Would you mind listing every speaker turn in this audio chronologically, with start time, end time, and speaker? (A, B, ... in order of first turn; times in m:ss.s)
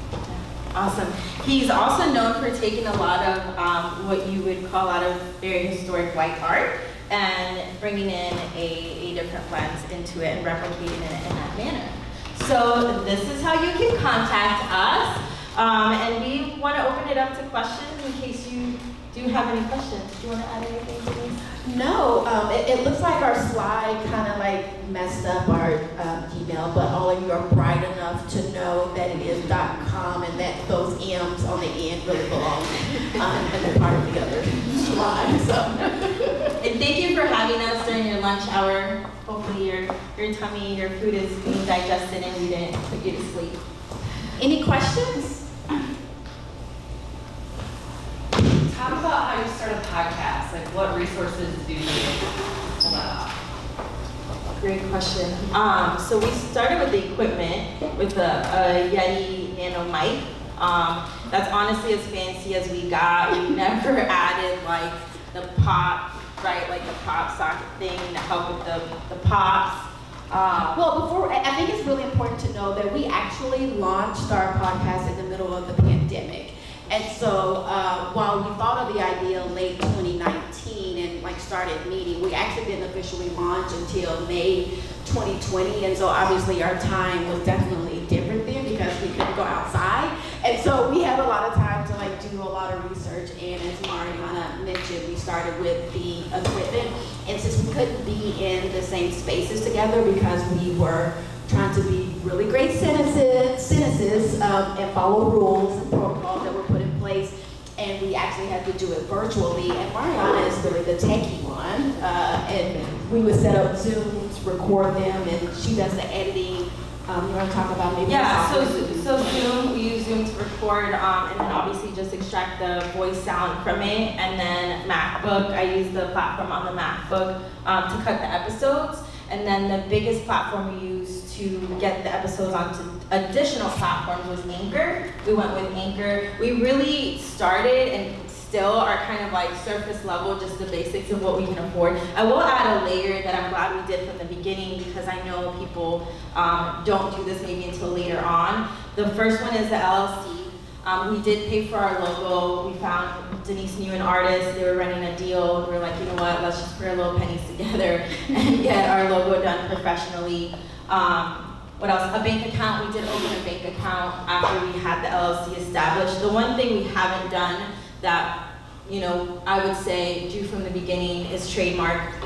0:00.3-0:21.4 A
0:21.6-0:36.5 B
0:36.6-0:43.6 A
0:44.4-0:45.8 B
0:48.5-0:53.3 C
0:54.6-1:10.9 A
1:10.7-1:59.5 B
1:58.1-2:48.3 A
2:48.9-2:52.1 A